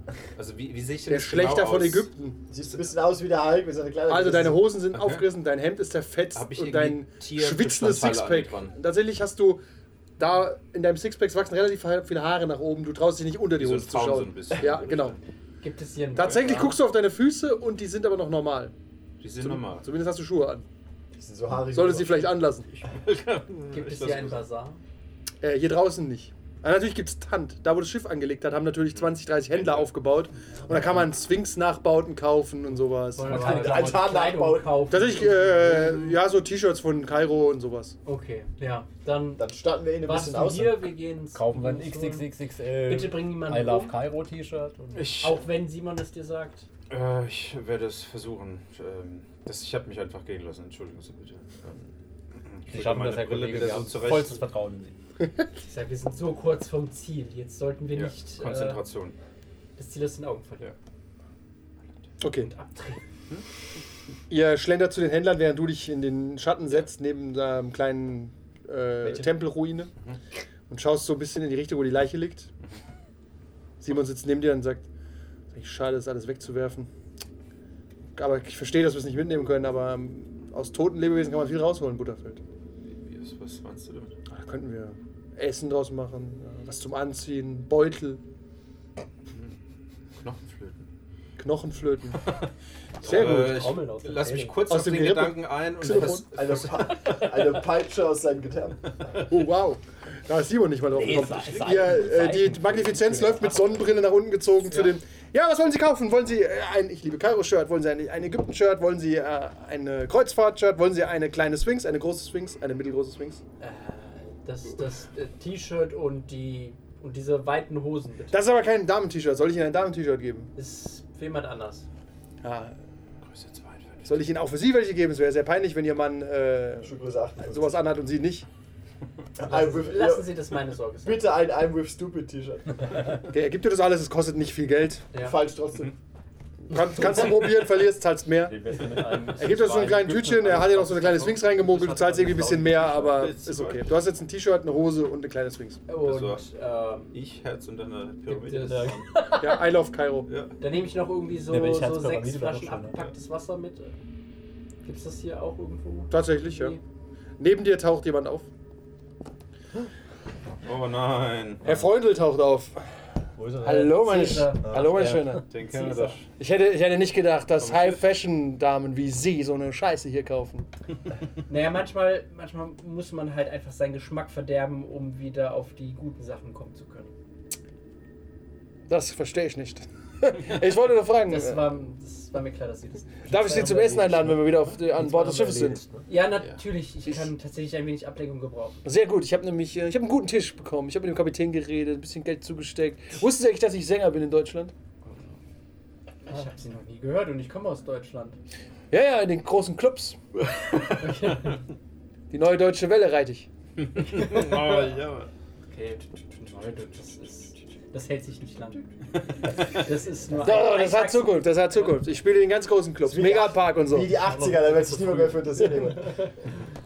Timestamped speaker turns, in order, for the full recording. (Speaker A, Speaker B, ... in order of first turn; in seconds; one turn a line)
Speaker A: 0.4-2.1
Speaker B: 1.1-2.4
Speaker C: 2.5-4.8
Speaker B: 4.1-9.6
Speaker A: 4.9-5.2
Speaker A: 6.3-8.8
Speaker B: 10.2-15.2
Speaker A: 13.6-15.2
Speaker D: 15.6-16.8
Speaker B: 16.1-18.7
Speaker A: 16.2-16.4
Speaker A: 19.2-19.9
Speaker B: 19.4-20.7
Speaker C: 21.2-22.4
Speaker B: 21.7-22.7
Speaker A: 22.7-24.4
Speaker D: 23.7-24.8
Speaker B: 25.4-34.0
Speaker A: 28.9-29.9
Speaker D: 33.1-36.2
Speaker C: 33.3-35.1
Speaker B: 34.9-38.0
Speaker D: 38.0-39.5
Speaker C: 39.4-40.8
Speaker D: 40.0-42.3
Speaker E: 41.3-45.2
Speaker D: 42.9-44.0
Speaker A: 44.9-45.4
Speaker D: 45.2-46.7
Speaker A: 46.9-51.9
Speaker A: 52.5-54.4
Speaker E: 52.7-55.0
Speaker D: 55.6-58.8
Speaker A: 57.9-59.1
Speaker D: 59.8-60.7
Speaker B: 62.2-62.5
Speaker D: 62.4-63.0
Speaker B: 64.3-69.9
Speaker B: 70.7-72.5
Speaker B: 73.8-74.9
Speaker B: 75.5-76.9
Speaker B: 78.2-82.4
Speaker A: 82.9-84.2
Speaker B: 84.3-88.2
Speaker A: 90.2-90.9
Speaker B: 91.4-92.2
Speaker A: 92.2-92.5
Speaker A: 93.0-97.3
Speaker B: 93.0-93.7
Speaker E: 93.0-94.7
Speaker B: 94.7-96.3
Speaker C: 96.3-98.8
Speaker B: 99.2-113.4
Speaker E: 100.9-104.0
Speaker A: 101.2-102.0
Speaker D: 113.6-118.4
Speaker B: 118.3-120.5
Speaker D: 120.5-121.9
Speaker B: 122.4-122.8
Speaker A: 123.3-124.1
Speaker B: 124.1-128.5
Speaker C: 126.8-127.9
Speaker C: 129.4-130.3
Speaker D: 129.5-131.2
Speaker C: 131.0-133.0
Speaker B: 133.3-135.1
Speaker D: 135.1-135.4
Speaker C: 135.2-135.9
Speaker B: 136.7-138.6
Speaker E: 138.4-143.3
Speaker B: 139.3-145.8
Speaker A: 143.0-144.0
Speaker D: 145.9-147.2
Speaker A: 146.0-146.4
Speaker A: 147.1-148.9
Speaker D: 148.3-149.0
Speaker E: 148.6-149.7
Speaker B: 149.4-150.3
Speaker A: 150.3-150.6
Speaker D: 150.6-153.9
Speaker E: 151.5-153.1
Speaker D: 154.8-156.8
Speaker B: 156.1-156.8
Speaker B: 157.4-158.5
Speaker A: 160.7-161.6
Speaker B: 161.6-162.8
Speaker C: 163.4-163.9
Speaker B: 163.5-165.5
Speaker D: 163.9-165.1
Speaker A: 165.4-166.3
Speaker D: 165.7-166.3
Speaker B: 166.4-170.7
Speaker A: 167.6-168.0
Speaker D: 171.5-177.1
Speaker B: 178.9-181.7
Speaker D: 181.3-183.7
Speaker B: 183.3-185.8
Speaker E: 183.3-186.1
Speaker D: 186.1-188.8
Speaker B: 188.8-194.7
Speaker A: 195.1-195.3
Speaker D: 196.3-198.4
Speaker B: 198.9-200.2
Speaker D: 200.9-201.6
Speaker B: 202.3-203.5
Speaker A: 203.8-205.3
Speaker D: 204.0-204.9
Speaker D: 205.7-211.9
Speaker B: 210.4-214.1
Speaker C: 213.0-216.3
Speaker E: 214.2-215.4